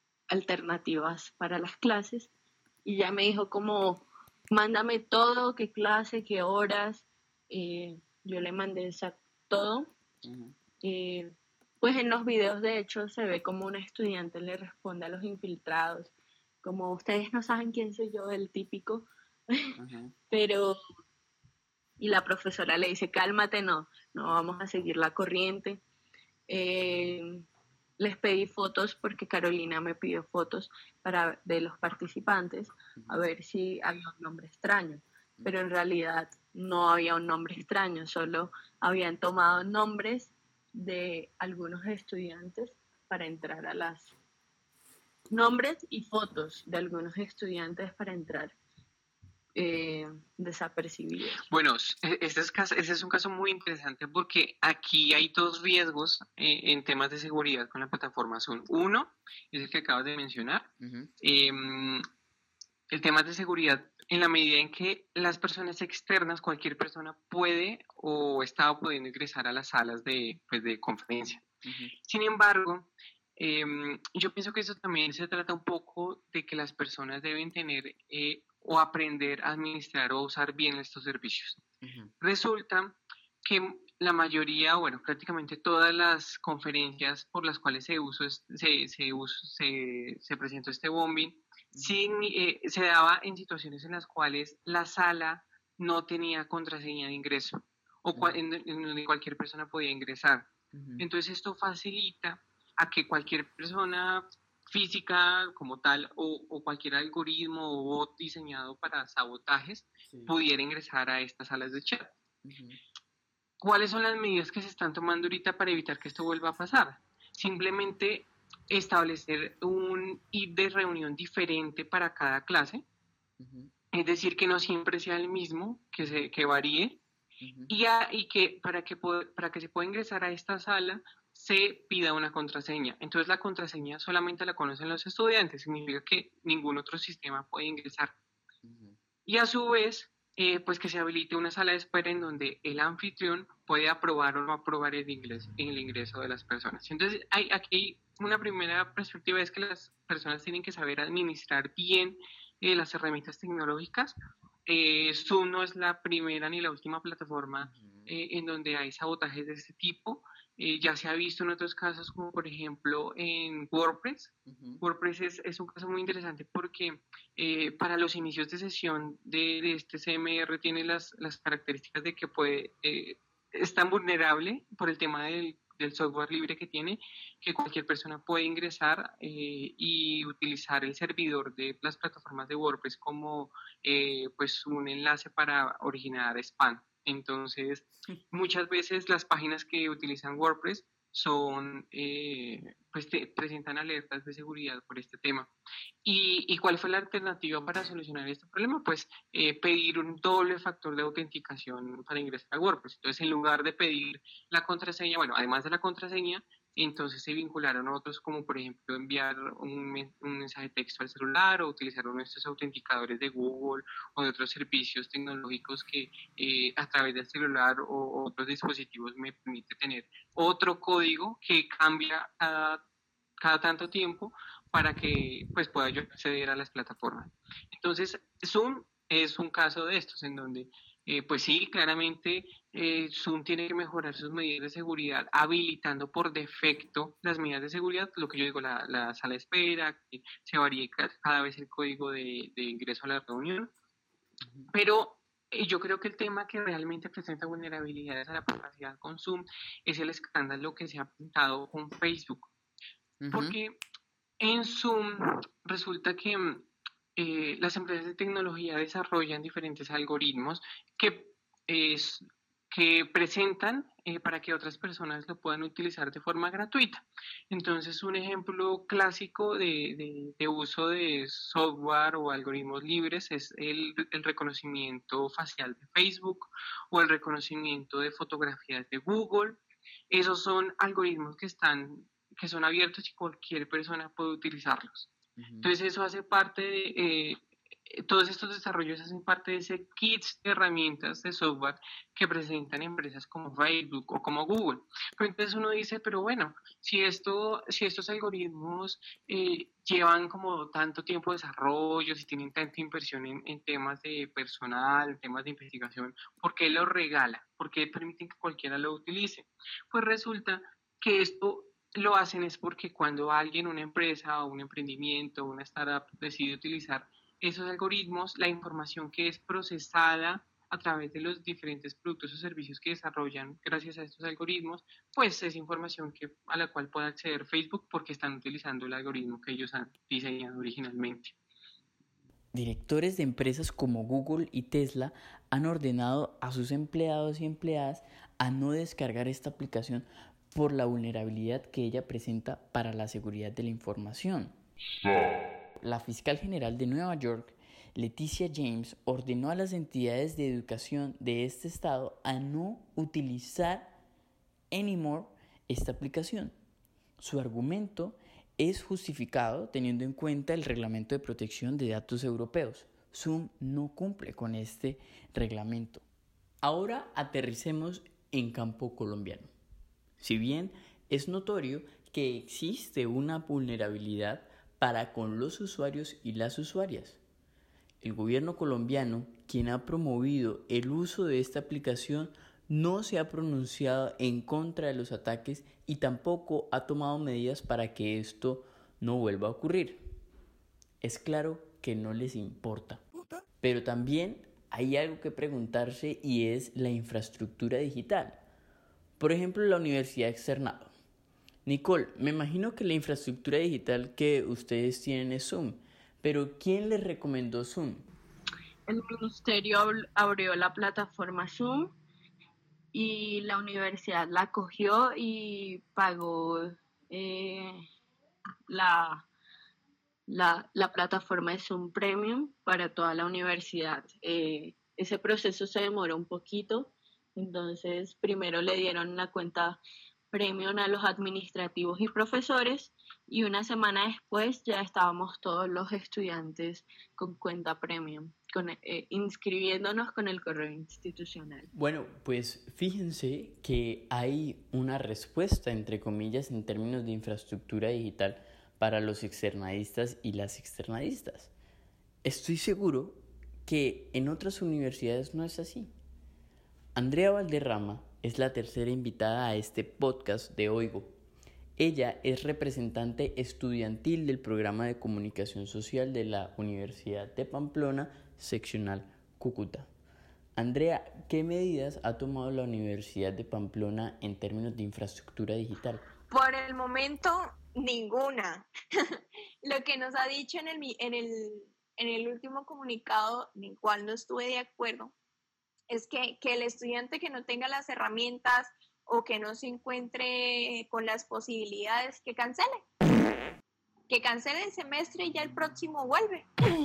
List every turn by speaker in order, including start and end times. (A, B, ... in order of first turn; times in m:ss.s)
0:00.3-0:02.3 A
0:02.8-0:09.9 A
0:10.2-0:10.5 B
0:10.8-0:16.1 A
0:16.6-0:19.7 A
0:19.8-0:20.1 B
0:20.3-0:20.8 A
0:22.0-0:25.8 A
0:26.5-0:27.4 A
0:28.0-0:44.1 A
0:45.3-0:48.5 A
0:49.6-0:51.4 A
0:51.5-1:02.0 C
1:00.8-1:01.1 B
1:02.9-1:11.4 C
1:11.6-1:11.9 B
1:12.0-1:21.6 C
1:21.8-1:22.1 B
1:22.2-1:52.1 C
1:40.7-1:41.0 B
1:50.1-1:50.3 B
1:52.4-1:52.8 B
1:53.6-2:02.8 C
2:03.4-2:03.7 B
2:03.9-2:07.0 C
2:07.4-2:07.7 B
2:07.7-2:18.1 C
2:18.6-2:18.9 B
2:19.2-3:15.5 C
2:37.6-2:38.1 B
2:44.5-2:44.8 B
3:16.0-3:42.8 C
3:43.4-4:03.7 C
4:04.4-4:04.7 B
4:04.7-4:12.5 C
4:13.2-4:13.6 B
4:13.3-4:13.8 C
4:14.4-5:31.3 C
4:45.4-4:45.7 B
5:32.5-5:44.5 B
5:45.8-5:54.0 B
5:54.7-5:56.5 B
5:57.2-6:06.0 B
6:06.6-6:09.5 B
6:10.2-6:17.2 B
6:18.0-6:30.0 B
6:31.0-6:33.0 B
6:33.6-6:38.4 B
6:39.2-6:40.9 B
6:41.6-6:48.0 B
6:48.9-6:52.0 A
6:52.9-6:57.8 A
6:58.7-6:59.2 A
7:00.3-7:09.8 A
7:10.3-7:21.7 A
7:21.7-7:31.5 B
7:32.2-7:35.9 B
7:36.9-7:41.1 B
7:41.8-7:49.9 B
7:50.6-7:56.0 B
7:56.3-7:58.7 D
7:59.6-8:05.1 D
8:05.9-8:12.8 D
8:14.1-8:16.5 D